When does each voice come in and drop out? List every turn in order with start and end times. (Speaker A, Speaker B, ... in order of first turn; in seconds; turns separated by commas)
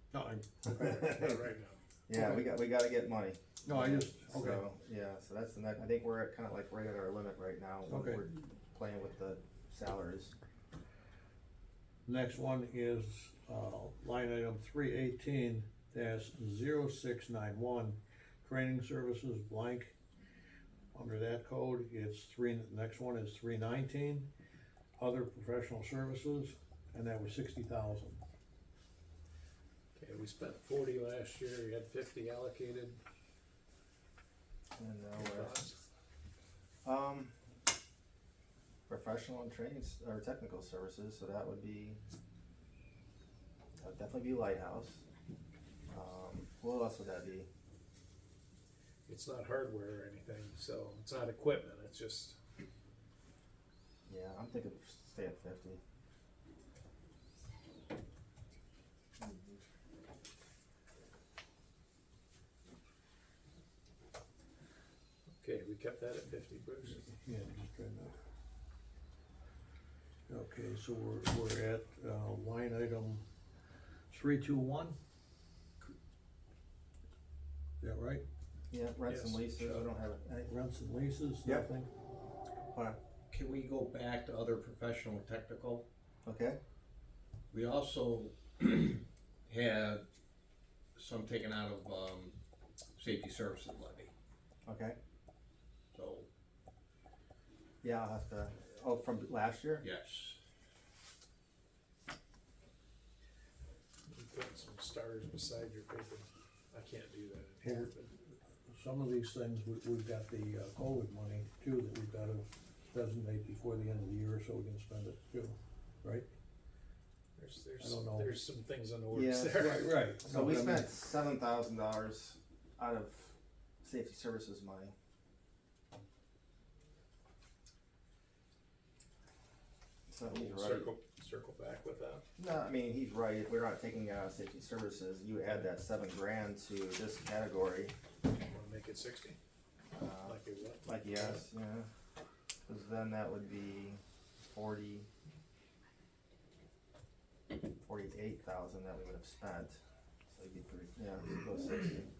Speaker A: 0.1-1.4, Speaker B: 0.7-1.2, Speaker C: 1.0-1.8, Speaker B: 2.1-10.3, Speaker A: 2.1-2.4, Speaker A: 3.6-4.7, Speaker A: 7.9-8.2, Speaker A: 12.1-19.9, Speaker A: 20.9-24.3, Speaker A: 25.0-28.2, Speaker C: 30.0-33.0, Speaker B: 34.8-35.6, Speaker C: 35.2-35.8, Speaker B: 36.8-37.4, Speaker B: 38.9-42.0, Speaker B: 43.8-45.0, Speaker B: 45.9-47.5, Speaker C: 49.1-52.4, Speaker B: 54.1-55.8, Speaker B: 59.2-59.6, Speaker C: 65.4-67.1, Speaker A: 66.9-68.2, Speaker A: 70.3-73.2, Speaker A: 74.1-75.0, Speaker A: 77.8-78.2, Speaker B: 78.7-80.5, Speaker C: 79.1-79.5, Speaker A: 80.5-81.9, Speaker B: 82.7-83.0, Speaker D: 83.3-85.9, Speaker B: 86.2-86.6, Speaker D: 87.5-90.1, Speaker D: 91.0-92.4, Speaker D: 93.0-94.1, Speaker B: 94.7-95.0, Speaker D: 95.9-96.3, Speaker B: 97.8-99.8, Speaker D: 99.8-100.4, Speaker C: 104.1-108.1, Speaker A: 107.6-116.3, Speaker C: 117.4-119.9, Speaker A: 117.8-118.3, Speaker B: 119.1-119.7, Speaker A: 119.5-120.9, Speaker B: 120.2-124.9, Speaker B: 130.1-130.9, Speaker C: 130.3-132.2, Speaker B: 132.4-137.9, Speaker C: 138.5-139.4, Speaker B: 139.9-141.9, Speaker C: 140.2-141.4, Speaker B: 142.7-145.1, Speaker B: 147.8-152.1